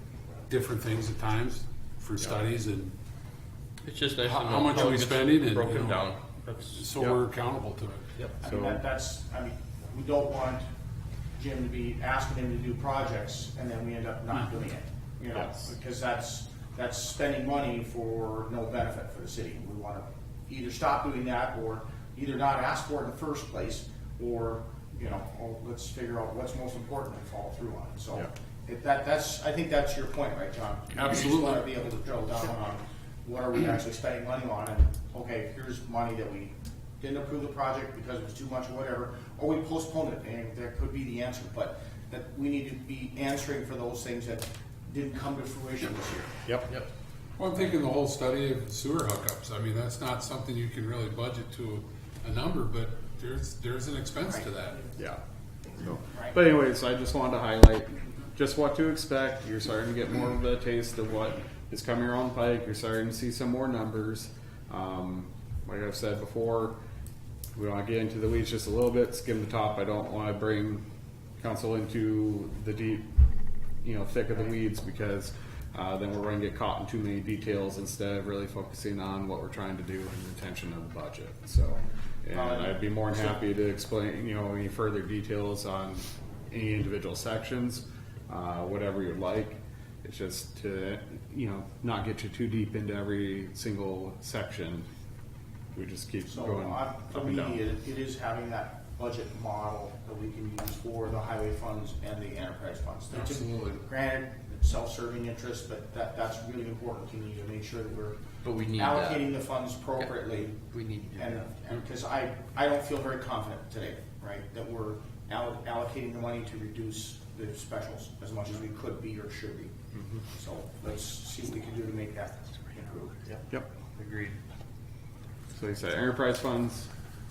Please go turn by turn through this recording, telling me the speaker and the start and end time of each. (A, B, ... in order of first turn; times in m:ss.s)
0:00.5-0:02.9 A
0:03.8-0:07.2 B
0:04.2-0:06.2 A
0:06.7-0:08.1 A
0:08.4-0:10.6 C
0:08.4-0:08.8 D
0:11.4-0:46.3 C
0:15.3-0:15.7 D
0:30.9-0:31.7 A
0:47.4-0:54.9 A
0:55.0-0:55.2 D
0:55.8-1:06.8 D
0:56.1-0:56.4 C
1:07.5-1:10.8 D
1:11.4-1:13.1 D
1:13.8-1:34.9 D
1:22.3-1:23.4 C
1:35.7-1:37.6 D
1:36.3-1:48.2 C
1:48.4-1:49.3 B
1:48.7-1:50.6 C
1:50.7-1:51.4 B
1:51.2-1:59.7 C
1:59.9-2:00.2 D
2:00.3-2:03.2 C
2:03.2-2:04.4 B
2:05.5-2:06.9 D